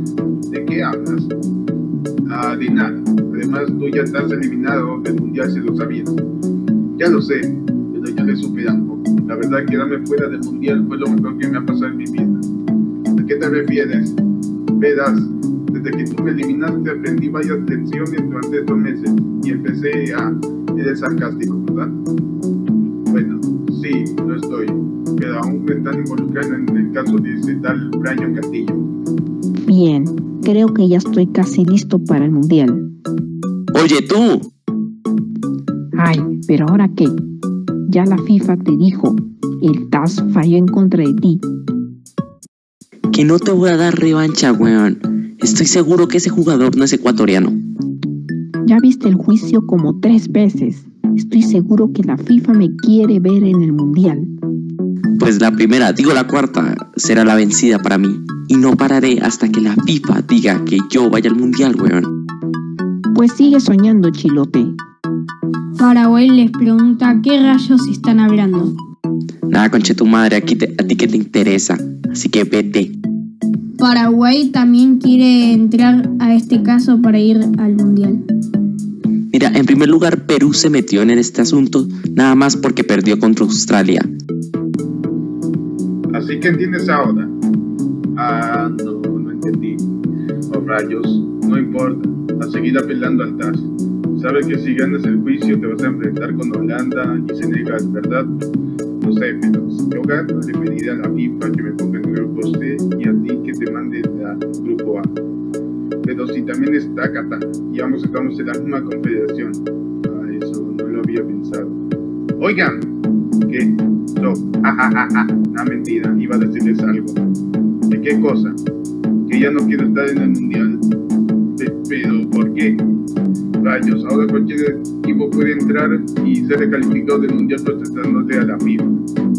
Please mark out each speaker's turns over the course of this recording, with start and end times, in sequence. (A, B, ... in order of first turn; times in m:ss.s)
0:00.5-0:01.3 A
0:02.3-0:06.2 A
0:07.0-0:12.5 A
0:13.1-0:14.2 A
0:14.8-0:21.9 A
0:23.1-0:28.8 A
0:29.6-0:32.9 B
0:33.7-0:34.5 C
0:35.9-0:37.2 B
0:37.9-0:41.4 B
0:43.1-0:47.6 C
0:48.6-0:54.3 B
0:55.2-1:02.1 C
1:03.1-1:04.8 B
1:05.8-1:08.7 D
1:09.5-1:12.9 C
1:13.8-1:18.2 D
1:19.3-1:24.1 C
1:26.1-1:27.3 A
1:28.2-1:29.8 A
1:30.5-1:38.3 A
1:39.0-1:45.2 A
1:46.0-1:51.8 A
1:52.4-1:52.9 A
1:53.5-1:57.2 A
1:57.9-1:58.6 A
1:59.2-2:00.8 A
2:01.5-2:02.9 A
2:03.6-2:09.0 A